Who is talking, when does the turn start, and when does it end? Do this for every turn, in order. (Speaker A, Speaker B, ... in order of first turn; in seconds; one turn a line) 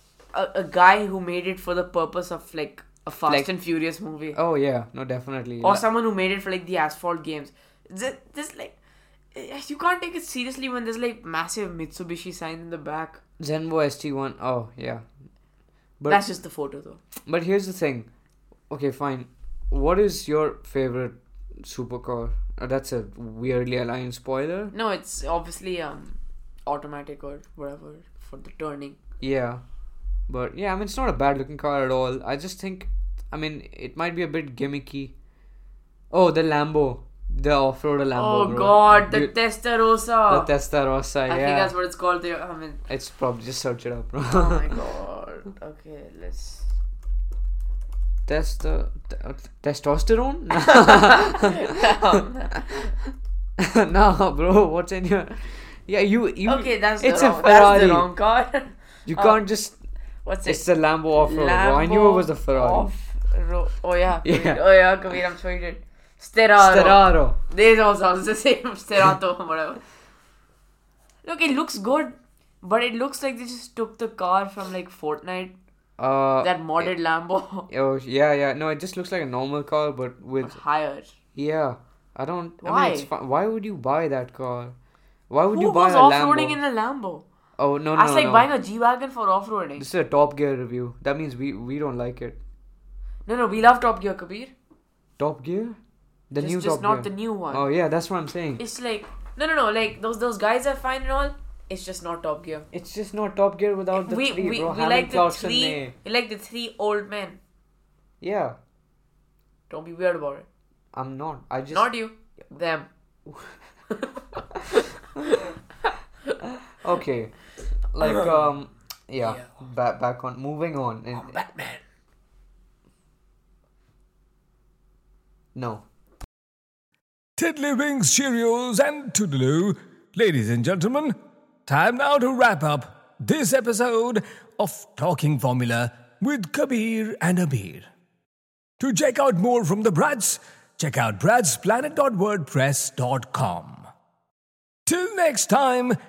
Speaker A: 0.3-4.4
Speaker B: 4.3-5.8
Speaker A: 5.6-8.8
Speaker A: 9.3-13.2
Speaker B: 13.4-15.0
Speaker B: 16.0-16.3
Speaker A: 16.1-17.0
Speaker B: 17.2-18.1
Speaker B: 18.7-24.7
Speaker A: 24.7-29.0
Speaker B: 29.2-29.6
Speaker B: 30.3-35.1
Speaker B: 36.1-39.4
Speaker A: 38.1-40.5
Speaker B: 40.3-41.7
Speaker A: 41.3-42.8
Speaker B: 42.9-44.8
Speaker A: 44.3-46.7
Speaker B: 48.2-52.2
Speaker A: 50.6-52.9
Speaker B: 53.6-58.1
Speaker A: 56.4-59.5
Speaker B: 59.1-59.8
Speaker A: 60.2-69.8
Speaker B: 60.5-62.9
Speaker B: 64.2-64.6
Speaker B: 66.6-67.4
Speaker A: 71.2-75.5
Speaker B: 76.0-76.9
Speaker A: 76.4-77.7
Speaker B: 77.7-80.6
Speaker A: 80.4-81.1
Speaker B: 81.3-84.8
Speaker A: 82.6-83.1
Speaker B: 85.3-86.6
Speaker A: 85.5-87.2
Speaker B: 87.6-88.5
Speaker A: 87.9-89.9
Speaker B: 89.8-92.4
Speaker A: 93.2-94.5
Speaker B: 95.2-95.8
Speaker B: 96.3-98.6
Speaker A: 96.4-97.7
Speaker A: 98.6-102.7
Speaker B: 102.7-105.9
Speaker A: 103.9-107.4
Speaker B: 108.2-108.6
Speaker A: 109.7-110.5
Speaker B: 110.9-111.9
Speaker A: 111.7-112.9
Speaker B: 113.3-113.5
Speaker A: 114.0-115.9
Speaker B: 116.8-117.4
Speaker B: 117.9-121.4
Speaker A: 121.2-121.8
Speaker B: 125.5-125.8
Speaker C: 127.4-131.1
Speaker C: 131.7-137.9
Speaker C: 138.8-143.9
Speaker C: 144.8-145.9